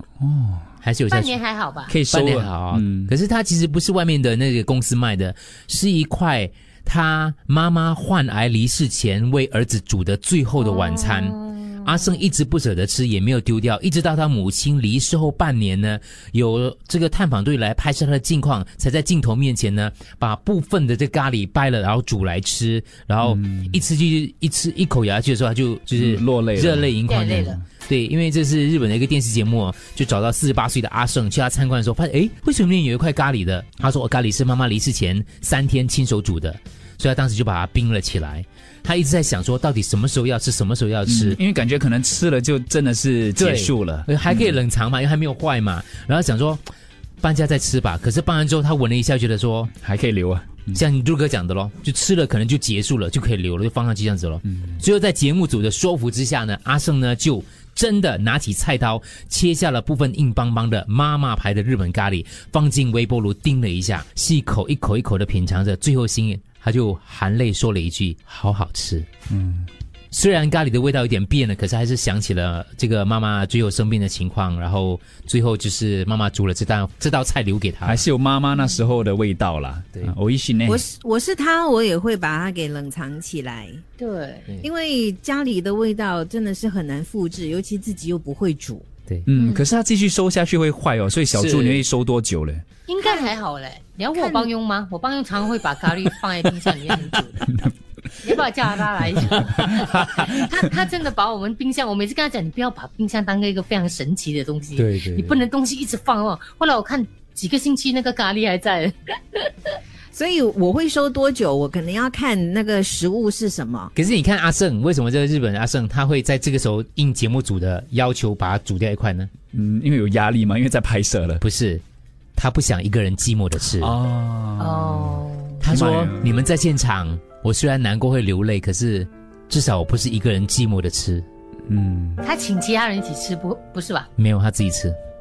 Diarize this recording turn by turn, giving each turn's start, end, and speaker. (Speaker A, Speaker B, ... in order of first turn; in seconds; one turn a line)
Speaker A: 0.2-0.7
Speaker B: 0.8-1.4
Speaker C: 1.1-2.0
Speaker A: 1.9-3.1
Speaker B: 2.1-41.4
Speaker C: 10.6-12.1
Speaker A: 23.3-23.6
Speaker A: 25.9-26.9
Speaker C: 27.1-27.6
Speaker A: 41.1-44.6
Speaker B: 43.4-46.6
Speaker B: 47.2-49.7
Speaker A: 49.8-50.8
Speaker B: 50.7-69.1
Speaker A: 69.3-69.7
Speaker B: 70.1-78.0
Speaker A: 77.8-80.8
Speaker D: 80.7-83.8
Speaker C: 84.0-84.5
Speaker D: 84.6-88.9
Speaker A: 89.3-92.7
Speaker B: 91.3-91.8
Speaker C: 92.9-97.5
Speaker D: 93.0-93.4
Speaker D: 94.1-94.5
Speaker C: 98.2-109.8
Speaker A: 99.2-100.4
Speaker B: 104.8-105.4
Speaker D: 110.1-113.9
Speaker B: 114.0-119.3
Speaker A: 119.5-121.4
Speaker B: 121.4-121.8
Speaker B: 122.4-124.0
Speaker A: 123.8-126.4
Speaker C: 124.6-125.7
Speaker B: 125.6-131.3
Speaker A: 131.7-132.2
Speaker C: 132.2-134.1
Speaker B: 134.2-135.0